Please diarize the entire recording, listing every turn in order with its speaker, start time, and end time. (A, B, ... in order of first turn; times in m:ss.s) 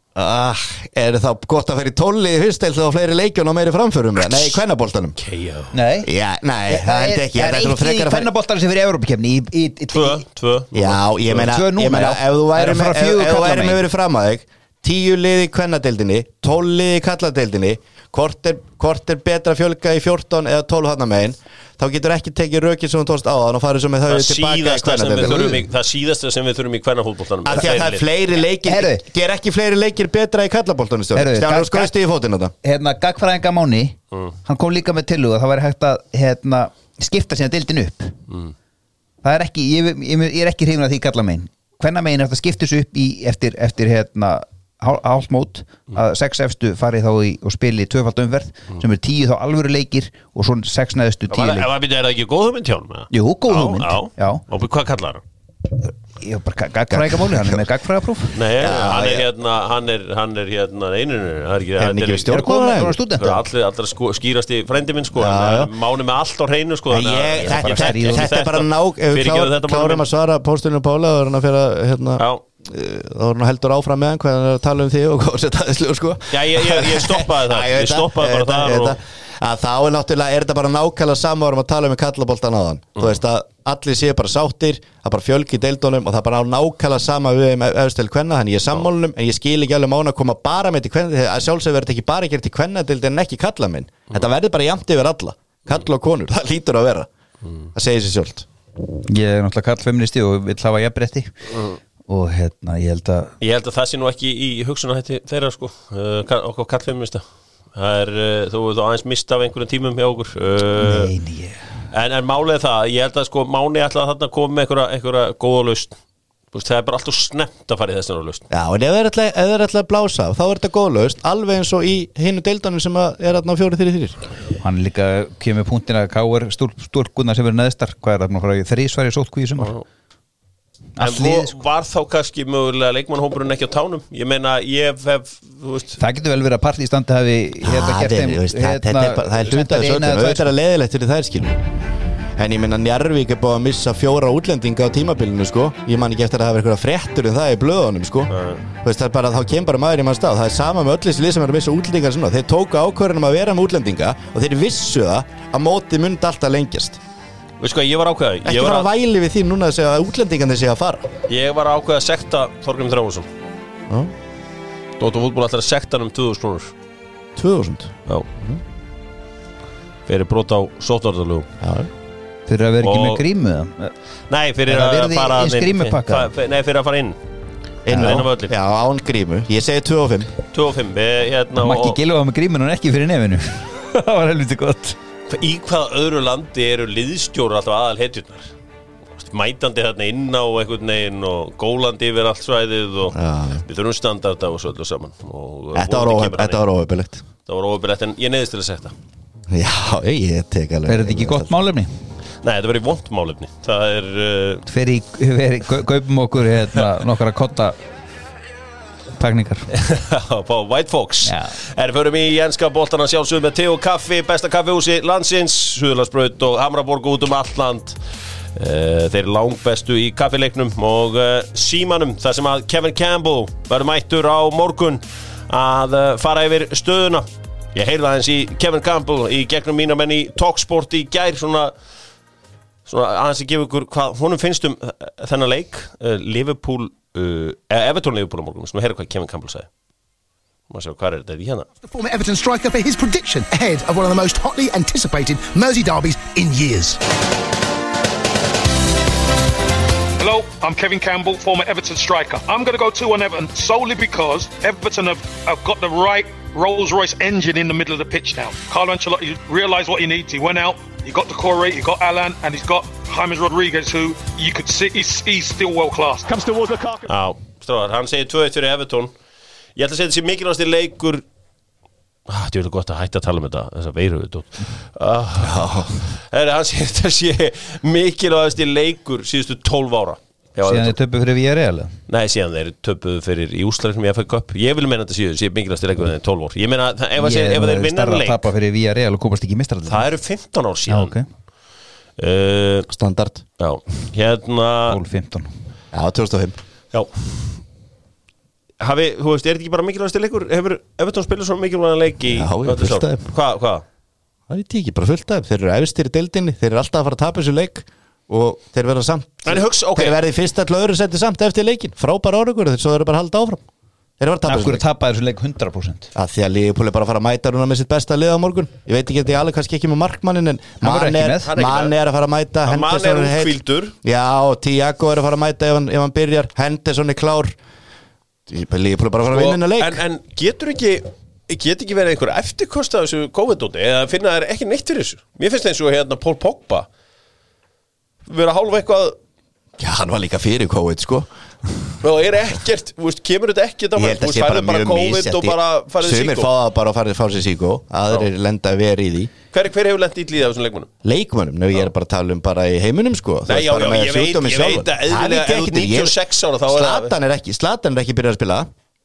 0:00.1-0:05.2 A
0:05.2-0:05.8 B
0:05.7-0:06.1 C
0:06.0-0:08.3 A
0:06.7-0:10.2 C
0:09.9-0:11.5 B
0:10.7-0:25.5 A
0:11.4-0:13.8 C
0:24.1-0:28.0 B
0:25.2-0:25.6 C
0:27.4-0:32.5 A
0:28.6-0:29.0 C
0:31.1-0:31.9 C
0:32.6-0:38.2 C
0:39.2-0:51.7 C
0:51.3-0:55.2 B
0:53.1-0:54.4 C
0:56.2-0:58.4 C
0:56.9-0:57.6 A
0:58.3-1:02.5 B
0:58.6-0:59.2 A
1:01.8-1:03.0 A
1:02.3-1:03.4 C
1:03.2-1:10.0 B
1:05.2-1:05.7 A
1:06.9-1:37.1 A
1:07.4-1:08.3 C
1:12.2-1:12.4 B
1:16.3-1:19.0 B
1:37.7-1:38.4 A
1:39.0-1:41.3 C
1:42.1-1:43.3 C
1:43.4-1:47.2 B
1:47.7-1:51.1 B
1:50.8-1:51.6 C
1:51.9-1:55.9 B
1:56.5-1:58.4 B
1:58.5-2:04.2 A
2:04.6-2:09.7 C
2:09.6-2:09.8 B
2:11.0-2:11.5 C
2:11.0-2:16.0 B
2:16.0-2:20.5 C
2:17.6-2:21.6 A
2:22.4-2:37.0 A
2:28.3-2:28.6 B
2:37.6-2:38.9 B
2:38.4-2:41.1 A
2:41.3-2:43.3 B
2:45.0-2:46.7 B
2:47.4-2:48.6 A
2:50.1-2:51.5 B
2:51.6-2:51.9 A
2:52.5-2:53.9 C
2:52.8-2:53.2 B
2:54.3-2:57.2 B
2:54.7-2:56.3 C
2:57.8-3:00.3 A
2:57.9-2:58.5 B
3:00.5-3:02.0 B
3:01.6-3:05.0 C
3:05.3-3:08.5 B
3:09.2-3:16.6 B
3:13.1-3:13.6 A
3:15.7-3:17.2 A
3:17.4-3:18.9 B
3:19.5-3:21.5 A
3:20.8-3:21.9 C
3:22.4-3:24.6 B
3:24.7-3:27.8 C
3:29.2-3:29.7 C
3:29.7-3:38.0 B
3:31.2-3:31.5 C
3:38.5-3:51.7 B
3:52.8-3:59.7 B
4:00.7-4:01.7 B
4:01.8-4:07.0 D
4:10.2-4:26.6 E
4:26.9-4:29.1 B
4:29.8-4:31.2 B
4:32.3-4:41.0 B
4:35.4-4:36.0 A
4:40.6-4:41.9 C
4:42.1-4:48.5 B
4:47.2-4:50.1 C
4:49.9-4:51.2 B
4:50.9-4:51.2 C
4:52.2-4:52.9 B
4:52.9-4:53.4 A
4:53.6-4:55.0 B
4:54.9-4:55.5 C
4:55.9-4:56.6 A
4:56.9-4:57.6 B
4:58.8-5:03.8 B
5:02.3-5:03.3 A
5:04.5-5:13.6 A
5:09.4-5:10.2 B
5:14.2-5:14.8 A
5:14.4-5:16.1 C
5:16.1-5:27.6 A
5:20.8-5:21.5 C
5:21.4-5:21.9 B
5:22.6-5:23.9 B
5:28.5-5:30.0 A
5:29.3-5:36.9 B
5:38.2-5:39.2 B
5:39.8-5:41.9 A
5:42.0-5:46.5 B
5:43.9-5:49.3 A
5:49.5-5:50.9 B
5:51.0-5:58.7 A
5:53.4-5:57.2 B